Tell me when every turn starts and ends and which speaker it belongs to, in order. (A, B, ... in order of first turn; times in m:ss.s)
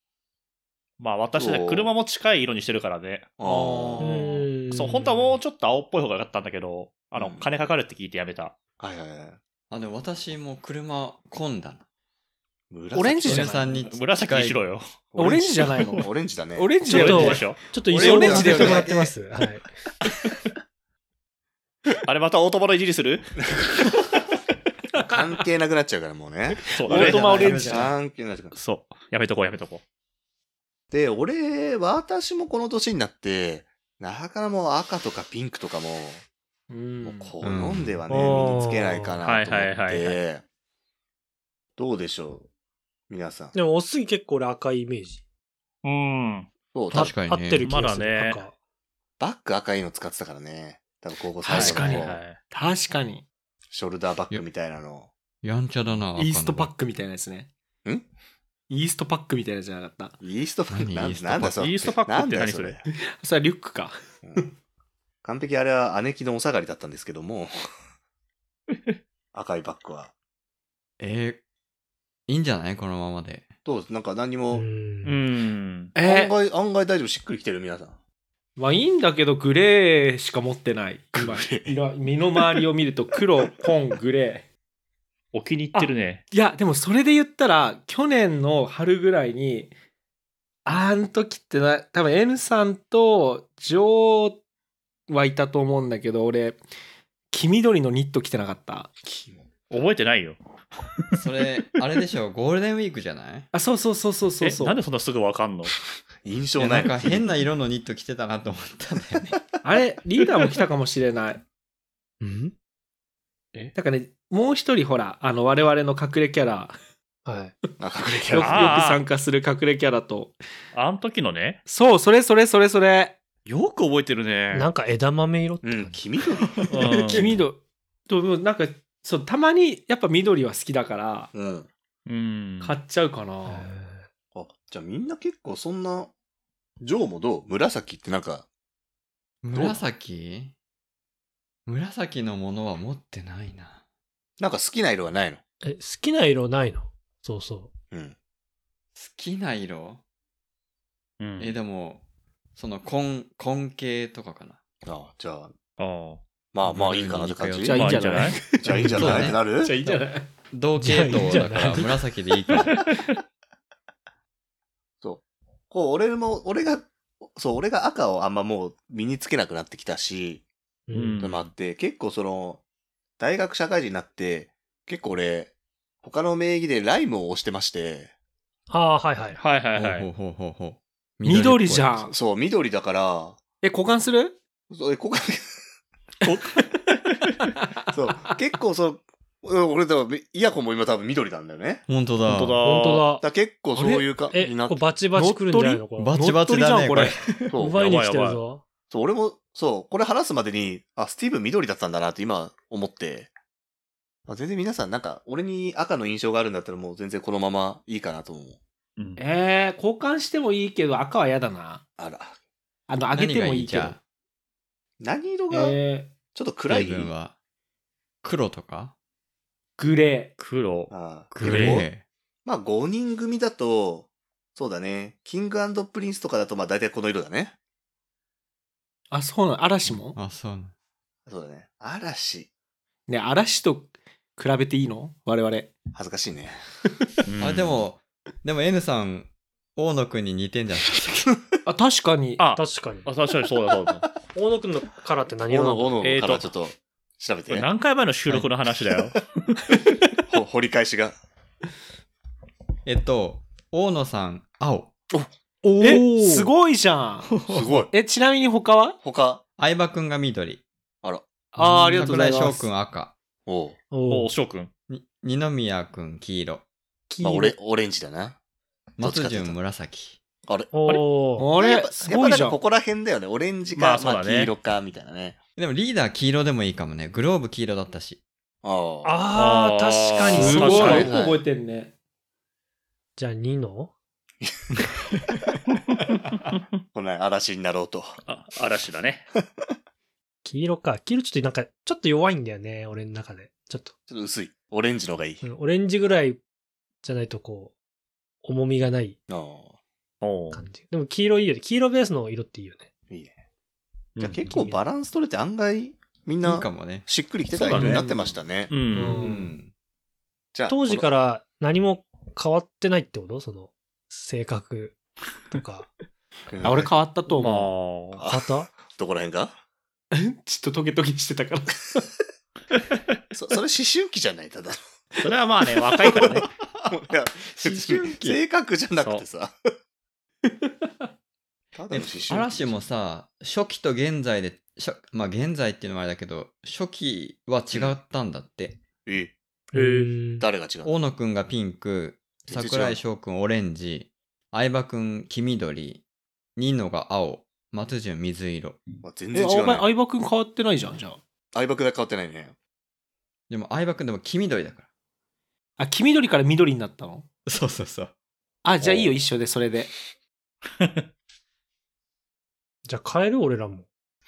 0:01.0-0:08.6 A
0:01.4-0:01.9 B
0:03.4-0:04.2 B
0:04.0-0:05.4 C
0:07.2-0:07.5 B
0:08.8-0:09.4 B
0:09.7-0:11.8 D
0:12.7-0:13.6 B
0:12.9-0:13.7 E
0:13.2-0:14.6 D
0:13.6-0:14.8 A
0:15.1-0:16.7 B
0:15.2-0:17.6 E
0:16.9-0:17.7 A
0:16.9-0:19.7 C
0:17.9-0:19.0 D
0:18.0-0:19.0 B
0:18.1-0:18.9 E
0:22.0-0:23.4 A
0:25.0-0:28.5 B
0:26.7-0:27.8 A
0:26.9-0:27.9 E
0:26.9-0:27.9 D
0:28.5-0:29.8 A
0:30.9-0:36.2 B
0:36.7-0:37.4 E
0:37.0-0:40.4 B
0:37.4-0:38.0 D
0:38.1-0:39.2 C
0:39.2-0:40.2 A
0:41.8-0:42.5 B
0:43.1-0:43.6 B
0:43.5-0:45.2 C
0:45.8-0:46.5 A
0:46.7-0:47.1 B
0:46.9-0:47.7 D
0:46.9-0:48.5 C
0:47.6-0:48.4 A
0:49.2-0:52.2 B
0:51.4-0:53.2 E
0:51.5-0:52.4 A
0:53.7-0:55.1 B
0:55.4-0:56.7 D
0:56.2-0:57.5 E
0:58.7-1:00.2 E
1:00.2-1:02.8 B
1:00.7-1:01.6 D
1:01.6-1:02.8 A
1:03.1-1:04.5 E
1:04.2-1:04.5 B
1:05.2-1:07.5 B
1:09.3-1:10.1 B
1:11.0-1:11.4 D
1:12.3-1:13.5 D
1:13.6-1:14.7 B
1:14.5-1:15.2 C
1:15.0-1:16.0 A
1:16.0-1:16.3 E
1:16.0-1:18.0 B
1:18.6-1:24.4 E
1:21.2-1:21.8 B
1:25.3-1:26.2 A
1:25.7-1:29.7 E
1:30.6-1:34.4 E
1:35.1-1:36.6 E
1:37.3-1:38.9 E
1:39.0-1:39.4 B
1:39.7-1:40.4 A
1:41.2-1:43.5 D
1:43.5-1:44.8 E
1:44.4-1:45.8 A
1:46.2-1:47.3 B
1:46.6-1:49.4 D
1:49.6-1:51.4 E
1:52.2-1:52.5 C
1:53.7-1:56.8 E
1:57.3-1:57.6 C
1:57.8-1:58.8 B
1:58.3-2:00.4 E
1:58.4-1:59.0 A
2:00.7-2:01.6 A
2:01.7-2:03.2 E
2:03.5-2:04.7 A
2:04.5-2:06.0 C
2:05.6-2:06.7 B
2:06.7-2:07.3 A
2:06.9-2:07.3 D
2:07.1-2:11.3 E
2:11.3-2:11.7 B
2:12.1-2:12.8 A
2:12.6-2:13.7 E
2:13.4-2:14.1 C
2:14.4-2:16.1 B
2:16.8-2:18.5 B
2:19.4-2:20.5 D
2:19.5-2:19.8 B
2:21.7-2:23.8 D
2:24.4-2:25.4 B
2:25.6-2:27.7 C
2:29.0-2:30.0 D
2:31.2-2:31.6 A
2:31.4-2:32.0 D
2:32.6-2:34.6 D
2:34.8-2:35.5 B
2:35.8-2:36.2 A
2:36.5-2:37.8 B
2:36.7-2:38.0 D
2:37.6-2:40.3 E
2:37.7-2:38.4 A
2:38.6-2:39.7 B
2:38.8-2:42.9 D
2:40.8-2:42.0 C
2:42.5-2:43.2 A
2:45.0-2:50.4 B
2:50.9-2:51.3 C
2:50.9-2:51.5 A
2:51.2-2:52.6 B
2:53.2-2:58.1 B
2:58.7-2:59.4 C
2:59.4-3:00.1 A
2:59.8-3:02.1 D
3:01.2-3:02.1 E
3:02.1-3:03.4 B
3:03.6-3:04.4 E
3:04.7-3:05.6 B
3:06.2-3:07.3 A
3:07.9-3:11.8 B
3:11.9-3:12.6 D
3:12.3-3:13.1 A
3:12.6-3:13.3 C
3:13.2-3:14.9 B
3:13.8-3:14.1 E
3:14.3-3:16.2 C
3:15.2-3:17.2 E
3:16.0-3:17.6 D
3:17.5-3:17.8 B
3:17.5-3:18.6 C
3:17.8-3:18.4 A
3:18.9-3:23.3 B
3:24.3-3:28.6 B
3:29.2-3:31.8 E
3:32.0-3:32.4 B
3:32.9-3:34.0 E
3:33.2-3:34.0 D
3:35.0-3:35.8 B
3:35.5-3:36.2 E
3:36.3-3:37.1 B
3:36.7-3:37.4 D
3:38.2-3:38.9 D
3:39.8-3:40.4 E
3:40.4-3:41.9 A
3:40.9-3:41.9 B
3:41.3-3:42.0 D
3:42.4-3:47.6 B
3:49.1-3:50.2 E
3:49.9-3:50.7 D
3:51.3-3:52.5 B
3:53.1-3:55.7 E
3:55.9-3:56.6 B
3:57.3-3:57.8 A
3:57.4-4:01.3 D
4:01.7-4:02.4 E
4:02.4-4:04.1 A
4:02.6-4:03.1 C
4:04.3-4:06.0 C
4:05.5-4:07.7 B
4:06.0-4:06.5 A
4:07.5-4:09.3 A
4:10.3-4:11.2 B
4:12.8-4:14.9 D
4:15.1-4:19.0 E
4:15.8-4:16.5 C
4:17.3-4:17.8 D
4:17.5-4:17.9 B
4:19.0-4:19.4 B
4:19.6-4:20.6 D
4:21.6-4:22.7 E
4:21.6-4:23.1 D
4:23.5-4:23.8 B
4:23.9-4:24.3 C
4:24.1-4:24.7 A
4:24.9-4:26.6 D
4:27.1-4:27.6 C
4:27.2-4:28.4 B
4:29.0-4:30.2 D
4:29.0-4:29.6 B
4:30.5-4:30.7 B
4:30.7-4:31.5 C
4:31.4-4:32.6 E
4:31.6-4:35.4 B
4:33.8-4:34.5 A
4:35.6-4:38.2 D
4:38.6-4:39.2 B
4:39.0-4:41.2 C
4:39.4-4:41.1 A
4:40.3-4:41.9 E
4:40.7-4:41.4 B
4:43.2-4:43.9 C
4:46.9-4:48.2 B
4:48.3-4:49.3 A
4:50.4-4:53.9 C
4:54.1-4:55.4 B
4:55.4-4:56.4 C
4:57.0-4:57.7 C
4:58.4-4:59.2 C
4:59.3-4:59.8 B
5:00.2-5:00.6 A
5:00.5-5:02.9 C
5:03.1-5:03.4 B
5:04.2-5:09.5 B
5:04.5-5:04.8 C
5:06.4-5:07.1 D
5:07.6-5:08.1 A
5:07.7-5:08.3 E
5:08.7-5:09.4 A
5:08.9-5:09.6 C
5:09.2-5:09.7 D
5:10.5-5:11.1 B
5:10.7-5:15.0 C
5:15.5-5:15.9 C
5:16.5-5:16.9 B
5:16.6-5:17.7 E
5:17.3-5:18.2 A
5:18.2-5:19.6 B
5:18.2-5:18.7 C
5:20.1-5:22.1 E
5:23.3-5:24.8 B
5:25.2-5:26.5 A
5:26.9-5:29.5 B
5:27.5-5:28.4 D
5:30.5-5:30.7 E
5:31.8-5:32.9 B
5:31.9-5:38.8 D
5:37.7-5:38.0 B
5:39.0-5:39.3 B
5:39.7-5:40.5 C
5:39.7-5:40.1 A
5:40.4-5:40.9 B
5:40.8-5:46.0 D
5:42.5-5:43.0 B
5:46.6-5:48.8 D
5:49.0-5:49.9 B
5:49.3-5:51.2 E
5:51.5-5:52.5 B
5:53.5-5:54.9 D
5:55.8-5:57.2 E
5:57.5-5:58.1 D
5:58.6-5:59.9 E
6:00.8-6:01.0 A
6:02.9-6:03.9 C